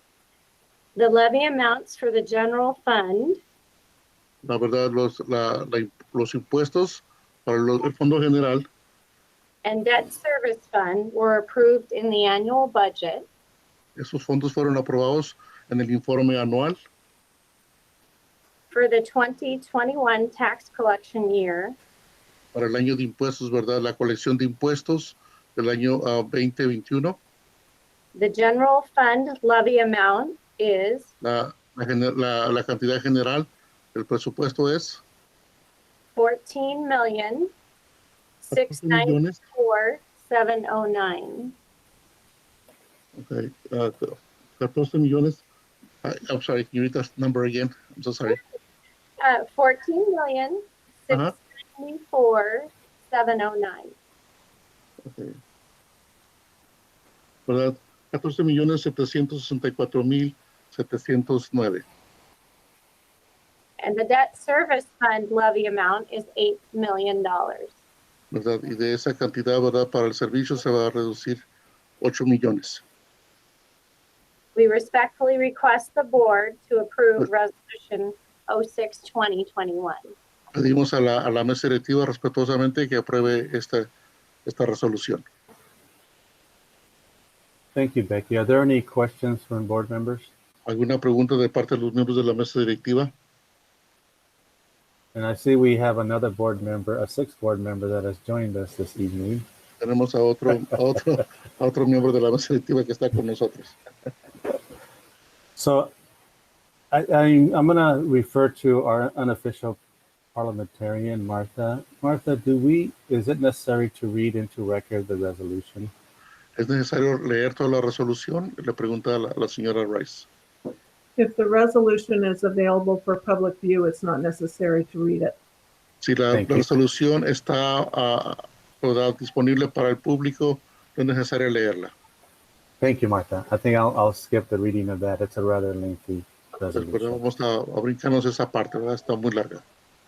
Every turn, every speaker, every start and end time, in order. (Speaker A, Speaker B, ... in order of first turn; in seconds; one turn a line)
Speaker A: 0.9-3.4
Speaker B: 4.4-8.6
Speaker A: 9.6-13.2
Speaker B: 14.0-16.8
Speaker A: 18.7-21.7
Speaker B: 22.5-27.2
Speaker A: 28.1-31.1
Speaker B: 31.2-35.0
Speaker A: 36.1-37.5
Speaker A: 38.4-41.5
Speaker B: 38.5-39.4
Speaker B: 43.2-45.4
Speaker B: 46.0-48.4
Speaker A: 49.2-53.9
Speaker B: 55.0-55.4
Speaker B: 57.5-61.8
Speaker A: 63.8-67.7
Speaker B: 68.3-71.4
Speaker B: 72.0-72.8
Speaker A: 74.5-80.1
Speaker B: 80.5-83.9
Speaker B: 84.5-85.2
Speaker C: 87.7-90.3
Speaker B: 90.7-93.1
Speaker C: 95.1-99.4
Speaker B: 99.8-103.7
Speaker C: 105.5-105.9
Speaker C: 106.9-109.8
Speaker C: 110.3-115.9
Speaker B: 116.6-120.3
Speaker D: 121.2-125.3
Speaker B: 126.0-131.9
Speaker C: 126.3-126.7
Speaker C: 132.8-137.2
Speaker B: 136.7-139.6